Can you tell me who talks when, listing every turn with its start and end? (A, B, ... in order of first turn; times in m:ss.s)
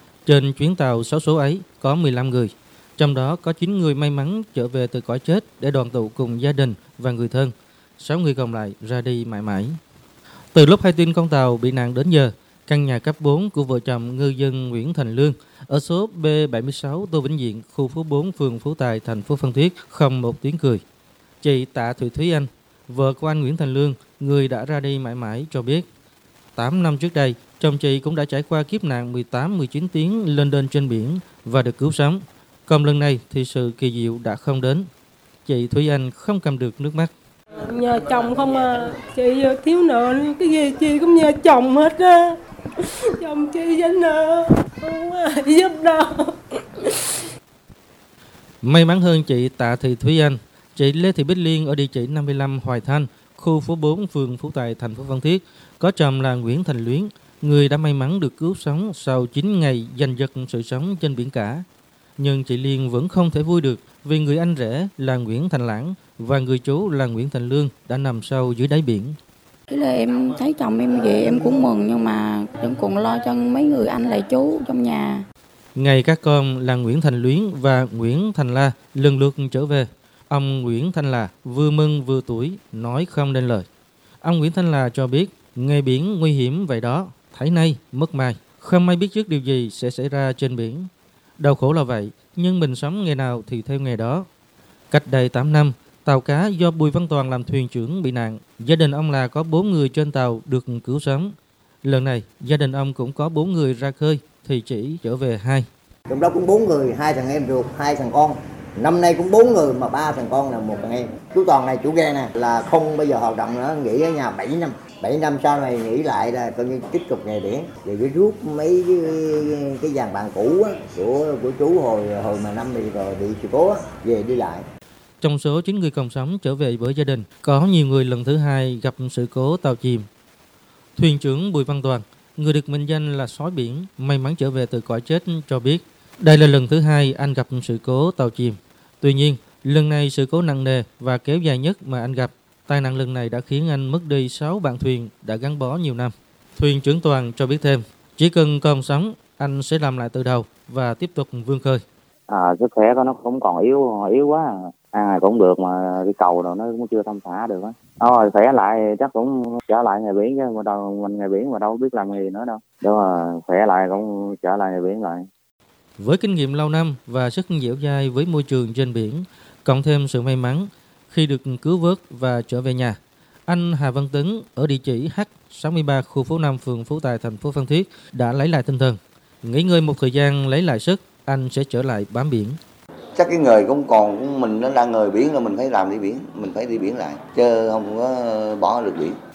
0:00.3-0:09.8 A
0:10.5-0:20.8 A
0:21.4-0:25.8 A
0:26.6-0:34.9 A
0:35.5-0:37.1 A
0:37.6-0:47.3 B
0:48.6-1:01.6 A
1:02.2-1:09.2 A
1:09.7-1:15.2 C
1:15.8-1:23.7 A
1:24.2-1:30.9 A
1:31.4-1:34.3 A
1:34.9-1:41.3 A
1:41.8-1:45.7 A
1:46.1-2:04.6 D
2:05.2-2:10.1 A
2:11.0-2:31.8 A
2:32.3-2:45.3 E
2:46.0-3:02.6 A
3:03.2-3:09.2 F